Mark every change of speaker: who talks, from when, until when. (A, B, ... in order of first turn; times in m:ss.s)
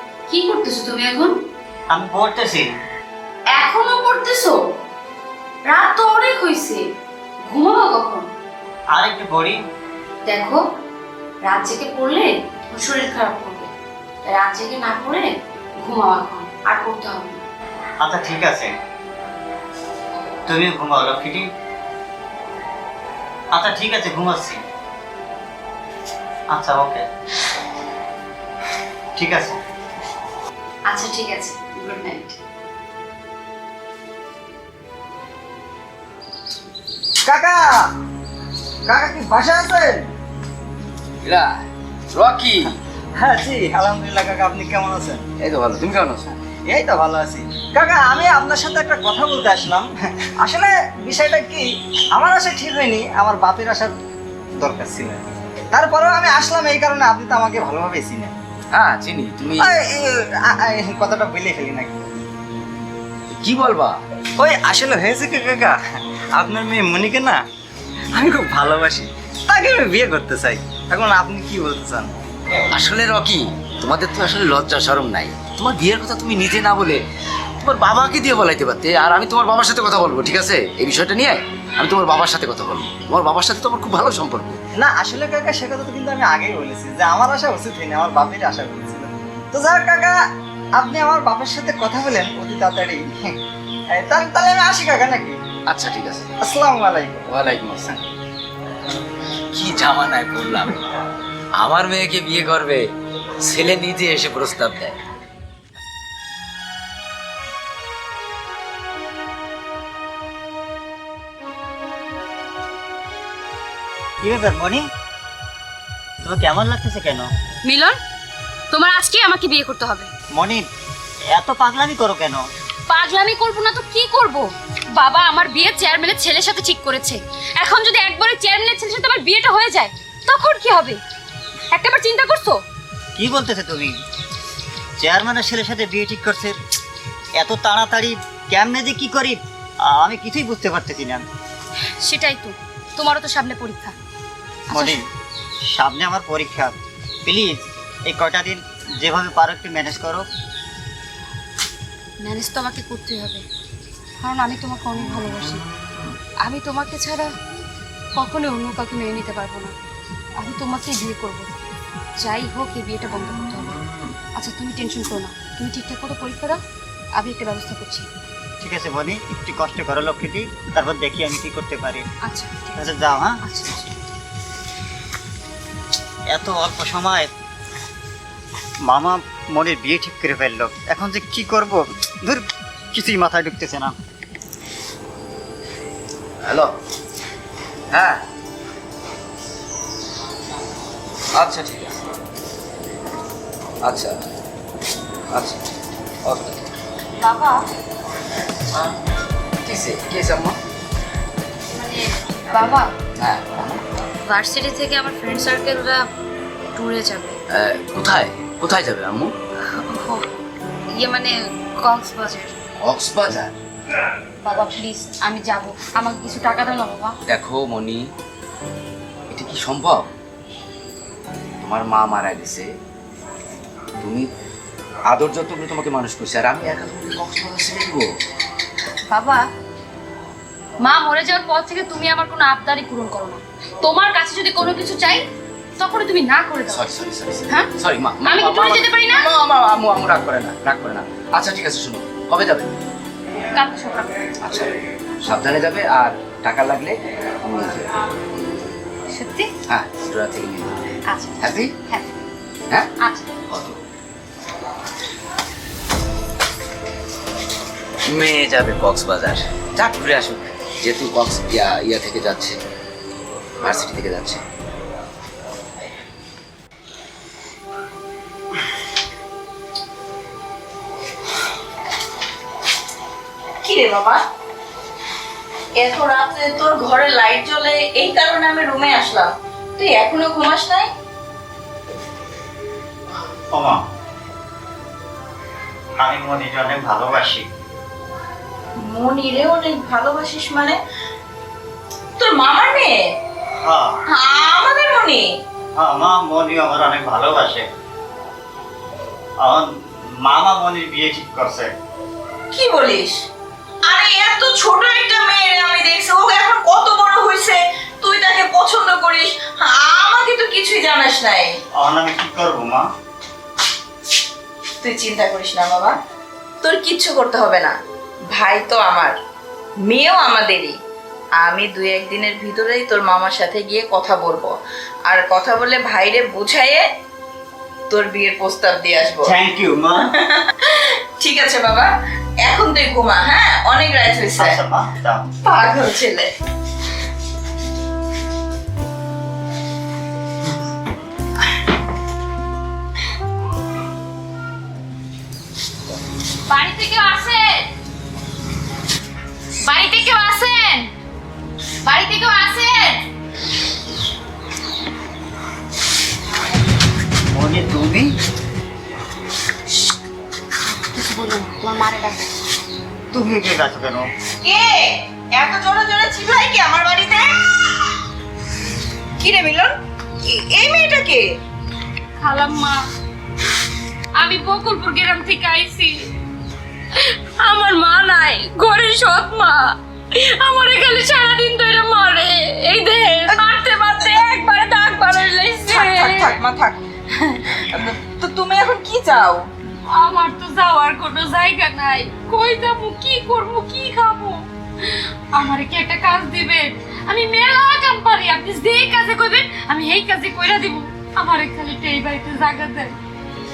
0:00.3-0:01.4 A
0:01.9-0:02.7 B
0:03.5-0:04.6 A
0:05.7-0:06.8 A
0:07.5-0:08.3 A
0:08.9-0:09.6 B
0:10.2-0:10.6 A
0:11.4-0:13.7 A
0:14.2-0:17.4 A
0:18.0-0:18.7 B
0:20.5-0:21.5 B
0:23.5-0:24.6 B
0:26.5-0:27.0 B
0:29.2-0:29.6 B
0:30.9-0:32.4 A
0:37.3-0:37.7 C
0:38.9-0:40.0 C
0:41.2-0:41.6 D
0:42.1-0:42.7 D
0:43.2-0:45.2 C
0:45.4-0:46.3 D
0:46.7-0:53.9 C
0:54.6-0:58.3 C
0:58.7-0:59.7 D
0:59.6-1:02.0 C
1:03.4-1:04.0 D
1:04.4-1:05.8 C
1:06.4-1:07.4 C
1:08.2-1:12.1 C
1:12.7-1:17.0 D
1:17.6-1:24.6 D
1:24.8-1:30.2 C
1:30.8-1:33.1 C
1:33.9-1:35.4 C
1:35.7-1:36.3 D
1:36.4-1:37.3 C
1:37.3-1:38.0 D
1:39.5-1:40.8 D
1:41.6-1:42.9 D
1:43.4-1:45.0 D
1:54.2-1:54.8 B
1:56.2-1:57.3 B
1:57.6-1:58.0 A
1:58.7-2:00.1 A
2:00.4-2:00.7 B
2:01.3-2:02.4 B
2:02.9-2:11.0 A
2:11.7-2:12.6 A
2:13.2-2:13.9 B
2:15.0-2:16.6 B
2:17.4-2:21.2 B
2:22.0-2:24.0 A
2:24.7-2:25.0 A
2:24.7-2:25.0 B
2:25.7-2:30.3 B
2:32.2-2:33.4 A
2:34.2-2:35.6 A
2:36.4-2:37.3 A
2:38.2-2:39.8 A
2:40.4-2:41.6 A
2:42.2-2:43.8 A
2:44.4-2:46.6 A
2:47.2-2:48.1 A
2:48.6-2:52.1 B
2:52.2-2:53.9 A
2:52.8-2:53.4 B
2:56.3-2:57.3 B
2:58.9-3:04.0 B
3:06.4-3:06.7 D
3:07.9-3:08.2 D
3:11.4-3:12.0 D
3:13.8-3:14.2 D
3:15.3-3:16.6 D
3:17.2-3:17.6 A
3:19.6-3:20.6 D
3:21.8-3:22.9 A
3:23.2-3:23.8 D
3:24.3-3:26.1 A
3:26.8-3:27.4 A
3:27.5-3:29.3 D
3:29.6-3:30.3 A
3:30.9-3:32.6 A
3:32.8-3:33.5 D
3:34.4-3:37.2 A
3:37.3-3:38.1 D
3:39.3-3:40.1 D
3:41.6-3:42.7 D
3:44.0-3:44.3 D
3:45.1-3:48.1 D
3:49.1-3:49.4 A
3:50.8-3:55.3 A
3:55.8-3:56.8 A
3:56.7-4:02.7 D
3:58.2-3:59.3 A
4:03.6-4:04.2 A
4:04.4-4:07.9 D
4:09.1-4:09.5 A
4:09.7-4:10.8 D
4:11.1-4:12.2 A
4:11.4-4:11.7 D
4:13.0-4:13.3 A
4:13.5-4:13.8 D
4:18.1-4:22.6 D
4:23.6-4:24.4 D
4:33.6-4:34.2 E
4:35.8-4:40.9 E
4:43.5-4:43.8 B
4:46.0-4:47.5 B
4:48.8-4:50.8 E
4:52.2-4:53.1 E
4:53.5-4:54.0 B
4:54.1-4:55.4 E
4:55.8-4:57.7 B
4:59.4-5:01.7 B
5:02.5-5:03.3 E
5:03.8-5:11.6 E
5:11.7-5:12.9 B
5:14.8-5:16.0 E
5:16.6-5:17.8 E
5:18.3-5:19.2 E
5:19.9-5:20.8 E
5:21.4-5:24.6 E
5:25.1-5:26.9 E
5:27.9-5:29.3 E
5:29.2-5:30.1 B
5:30.2-5:31.9 E
5:32.4-5:34.6 E
5:34.4-5:35.3 B
5:35.4-5:36.3 E
5:46.5-5:47.7 A
5:49.6-5:50.9 A
5:51.8-5:53.0 A
5:57.3-5:58.1 B
6:00.7-6:02.3 A
6:03.1-6:04.1 B
6:04.4-6:07.4 E
6:09.2-6:09.7 E
6:10.2-6:11.4 E
6:12.2-6:12.8 A
6:14.2-6:16.1 A
6:17.0-6:26.4 A
6:25.7-6:29.5 E
6:29.9-6:42.9 A